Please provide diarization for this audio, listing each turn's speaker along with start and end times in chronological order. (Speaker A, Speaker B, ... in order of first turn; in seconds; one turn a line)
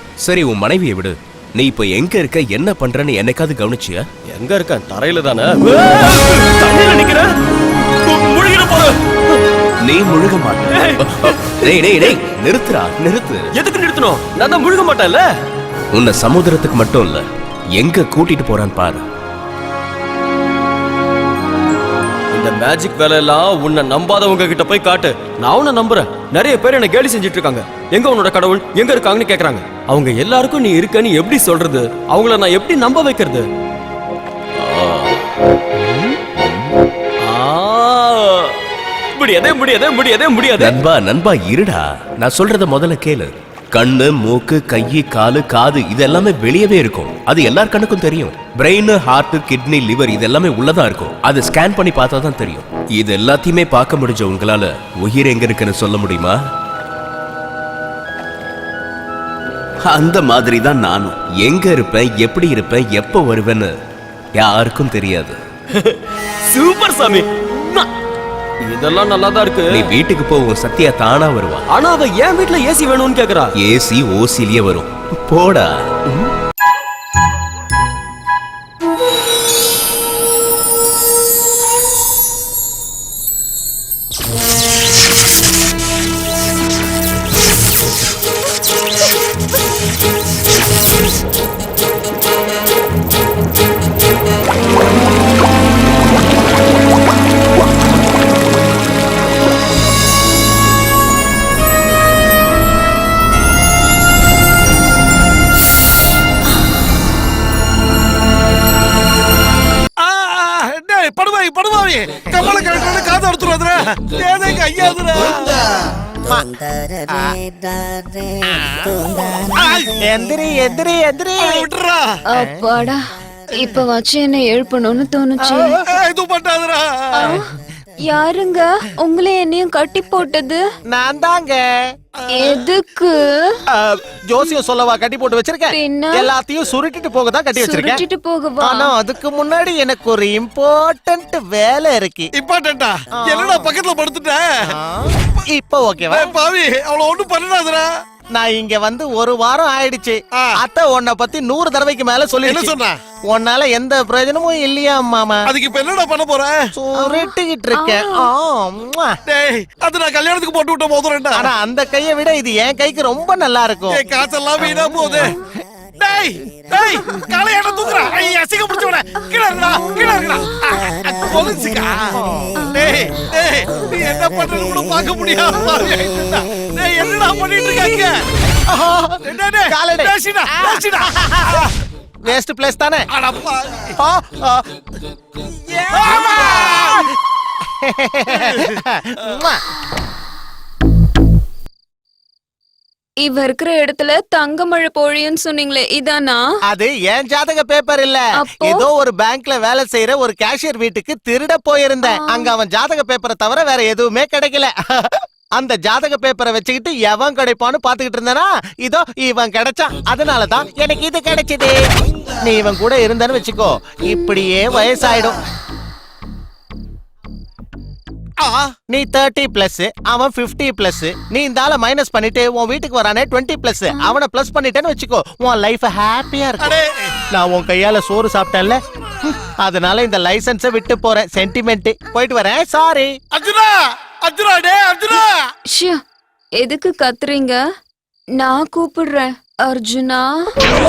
Speaker A: 0.2-4.0
Speaker B: 4.3-7.3
Speaker B: 8.1-8.9
Speaker A: 9.8-13.4
Speaker B: 13.6-15.2
Speaker A: 15.9-17.2
Speaker A: 17.8-19.0
Speaker B: 22.3-33.5
Speaker B: 37.3-38.5
Speaker B: 39.1-40.7
Speaker A: 40.5-56.4
Speaker A: 59.8-63.7
Speaker A: 64.4-65.4
Speaker B: 66.5-67.9
Speaker B: 68.6-69.7
Speaker A: 69.7-71.6
Speaker B: 71.7-73.5
Speaker A: 73.6-76.3
Speaker C: 110.0-115.6
Speaker C: 119.5-119.9
Speaker D: 120.0-121.7
Speaker C: 121.4-122.2
Speaker E: 122.3-123.0
Speaker E: 123.5-125.8
Speaker D: 125.5-125.7
Speaker C: 125.7-127.3
Speaker E: 128.0-130.6
Speaker D: 130.9-131.6
Speaker C: 132.2-132.6
Speaker E: 132.3-133.6
Speaker D: 133.7-138.0
Speaker E: 135.7-136.3
Speaker E: 137.5-138.9
Speaker D: 138.6-142.3
Speaker C: 142.3-144.4
Speaker D: 143.2-143.7
Speaker D: 144.7-146.3
Speaker C: 146.1-147.8
Speaker D: 148.3-152.7
Speaker C: 152.4-153.0
Speaker D: 153.3-155.5
Speaker C: 155.5-156.5
Speaker D: 156.7-159.2
Speaker E: 157.0-158.3
Speaker C: 159.2-161.3
Speaker D: 161.3-164.0
Speaker C: 163.9-165.3
Speaker C: 166.0-178.2
Speaker D: 178.7-181.6
Speaker C: 179.2-181.7
Speaker D: 182.2-183.1
Speaker C: 183.1-183.9
Speaker D: 184.0-184.6
Speaker C: 185.9-187.0
Speaker D: 186.1-186.7
Speaker D: 187.8-189.6
Speaker E: 193.2-196.5
Speaker D: 196.7-211.8
Speaker E: 198.4-198.9
Speaker E: 202.0-202.5
Speaker D: 212.4-215.4
Speaker C: 218.4-218.7
Speaker D: 218.9-226.8
Speaker C: 226.6-227.1
Speaker D: 227.3-228.8
Speaker D: 229.4-233.1
Speaker C: 233.3-233.7
Speaker C: 234.2-235.4
Speaker E: 235.7-236.0
Speaker E: 236.6-237.6
Speaker E: 238.4-240.3